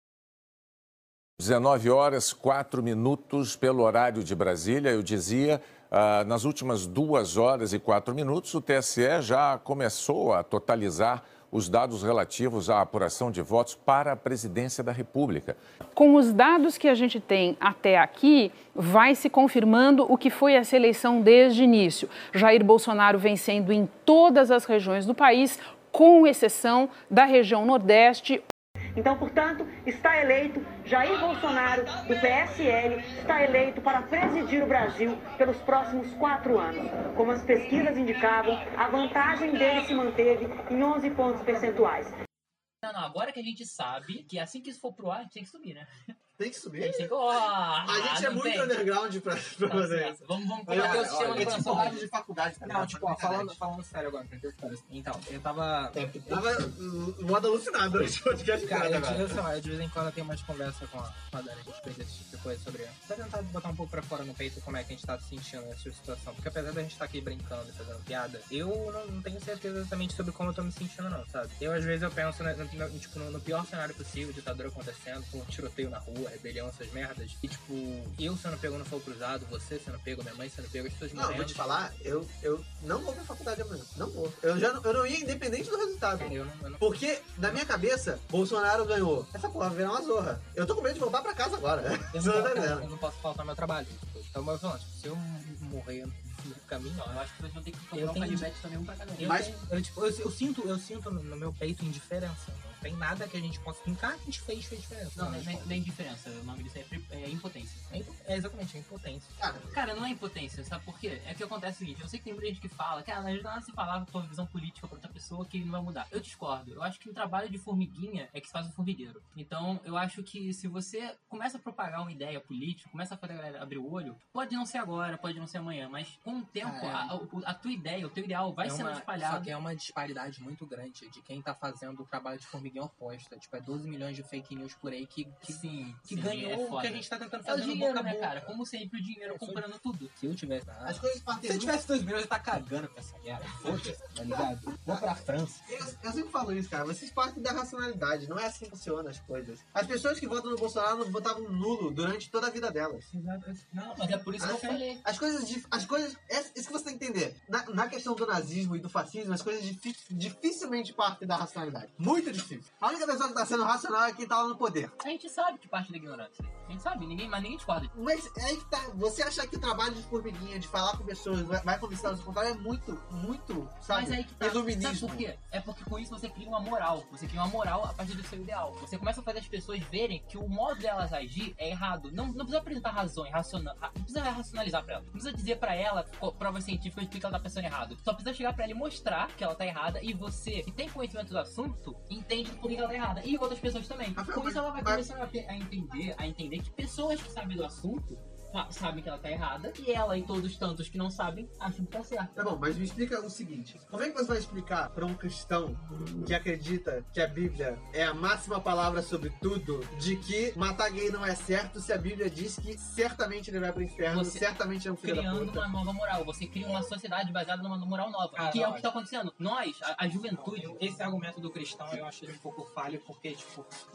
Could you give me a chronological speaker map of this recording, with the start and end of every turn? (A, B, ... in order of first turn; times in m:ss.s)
0:01.4-0:15.6 A
0:15.9-0:28.4 B
0:29.0-0:42.1 C
0:42.8-0:45.9 D
0:46.4-0:47.1 E
0:46.8-0:48.8 D
0:47.8-0:53.6 E
0:49.7-0:52.1 D
0:50.7-0:52.0 F
0:52.6-0:56.6 F
0:55.9-0:59.4 E
0:58.6-1:21.8 F
1:21.1-1:32.9 E
1:26.2-1:27.6 F
1:32.1-1:37.1 F
1:37.0-1:39.4 D
1:37.9-1:38.5 F
1:39.2-1:45.8 F
1:39.2-1:39.5 E
1:45.1-1:47.8 D
1:47.9-1:49.4 F
1:49.4-1:49.8 E
1:49.7-2:09.5 D
2:06.6-2:07.1 F
2:08.6-2:18.5 F
2:15.4-2:20.1 D
2:19.2-2:19.6 F
2:20.2-2:25.9 F
2:20.8-2:21.8 E
2:23.6-2:25.0 E
2:25.7-2:33.1 E
2:33.1-2:34.8 F
2:34.0-2:35.0 D
2:34.4-2:44.9 E
2:45.0-2:47.9 D
2:47.9-2:55.3 E
2:53.9-3:22.4 D
3:14.2-3:15.0 E
3:22.4-3:35.6 E
3:34.1-3:34.5 D
3:35.0-3:40.8 D
3:38.4-3:38.9 F
3:40.3-3:43.7 F